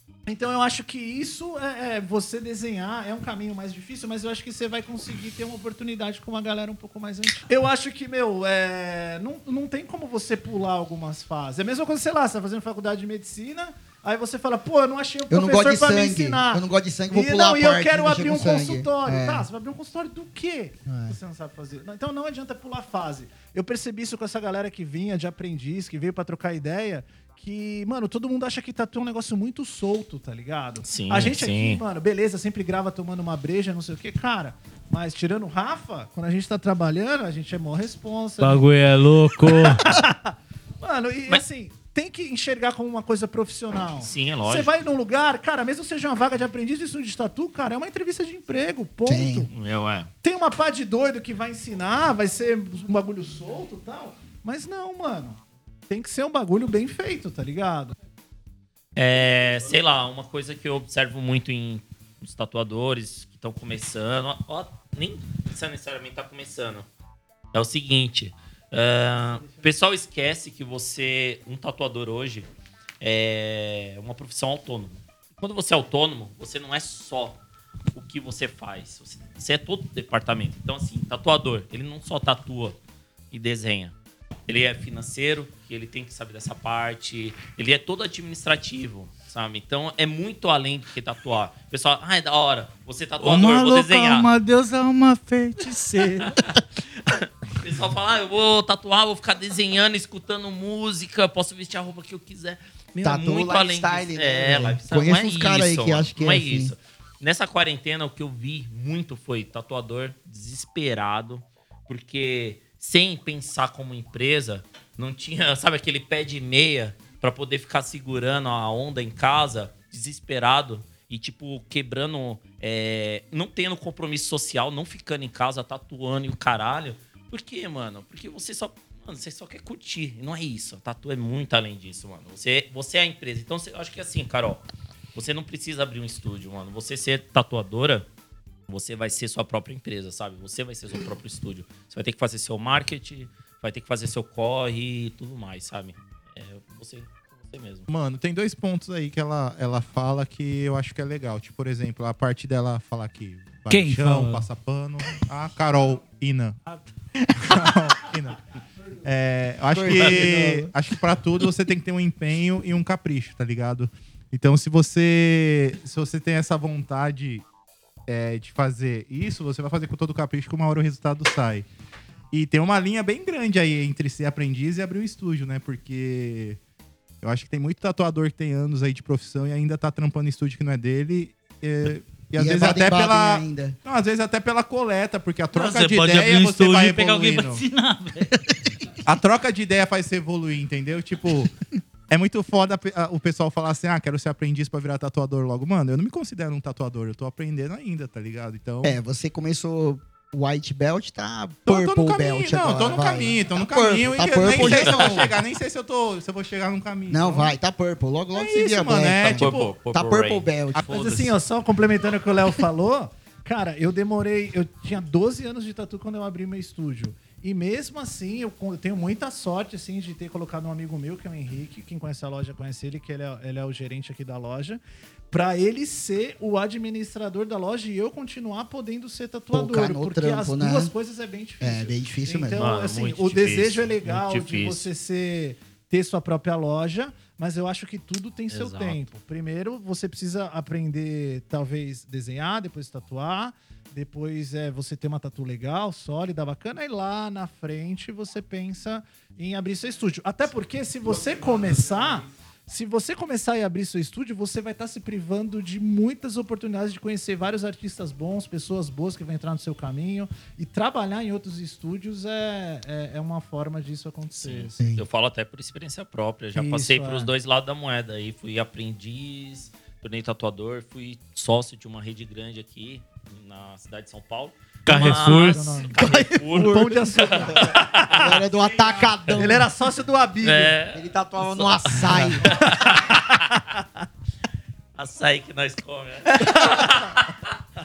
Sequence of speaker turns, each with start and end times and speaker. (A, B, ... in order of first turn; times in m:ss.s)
0:00.3-0:38.6 A
0:15.3-0:19.5 B
0:20.9-0:21.2 B
0:30.8-0:31.8 C
0:38.4-0:39.8 D
0:39.5-0:49.5 A
0:44.0-0:44.7 C
0:49.1-0:49.5 B
0:49.5-0:50.1 C
0:50.2-0:58.0 A
0:59.0-1:06.8 C
1:07.5-1:12.5 C
1:13.0-1:17.4 C
1:17.9-1:22.8 C
1:23.3-1:23.9 C
1:24.5-1:34.3 C
1:33.2-1:36.4 D
1:37.1-2:14.6 C
1:43.0-1:46.7 B
2:15.2-2:18.1 C
2:18.7-2:27.9 C
2:27.9-2:36.6 E
2:33.7-2:34.5 D
2:37.2-2:37.8 B
2:37.4-2:38.4 E
2:39.0-2:47.4 E
2:39.7-2:40.7 B
2:48.1-2:51.7 E
2:52.3-2:56.6 E
2:57.2-3:07.6 E
3:02.4-3:03.8 B
3:05.5-3:08.6 D
3:09.0-3:11.5 E
3:12.1-3:19.0 E
3:18.8-3:25.4 B
3:21.7-3:27.5 E
3:24.4-3:25.3 C
3:27.1-3:30.9 B
3:28.3-3:29.7 E
3:29.2-3:31.2 C
3:30.8-3:31.2 E
3:30.9-3:44.8 A
3:45.3-4:24.8 A
3:49.5-3:50.9 B
3:51.6-3:52.7 B
3:52.6-3:54.9 C
3:58.5-3:59.0 C
4:24.4-4:38.5 C
4:26.6-4:27.3 A
4:34.9-4:35.8 D
4:34.9-4:37.8 A
4:36.5-4:39.7 B
4:39.2-4:39.5 C
4:39.3-4:40.8 A
4:40.4-4:43.5 C
4:40.9-4:42.5 B
4:42.2-4:43.8 A
4:45.0-4:47.6 C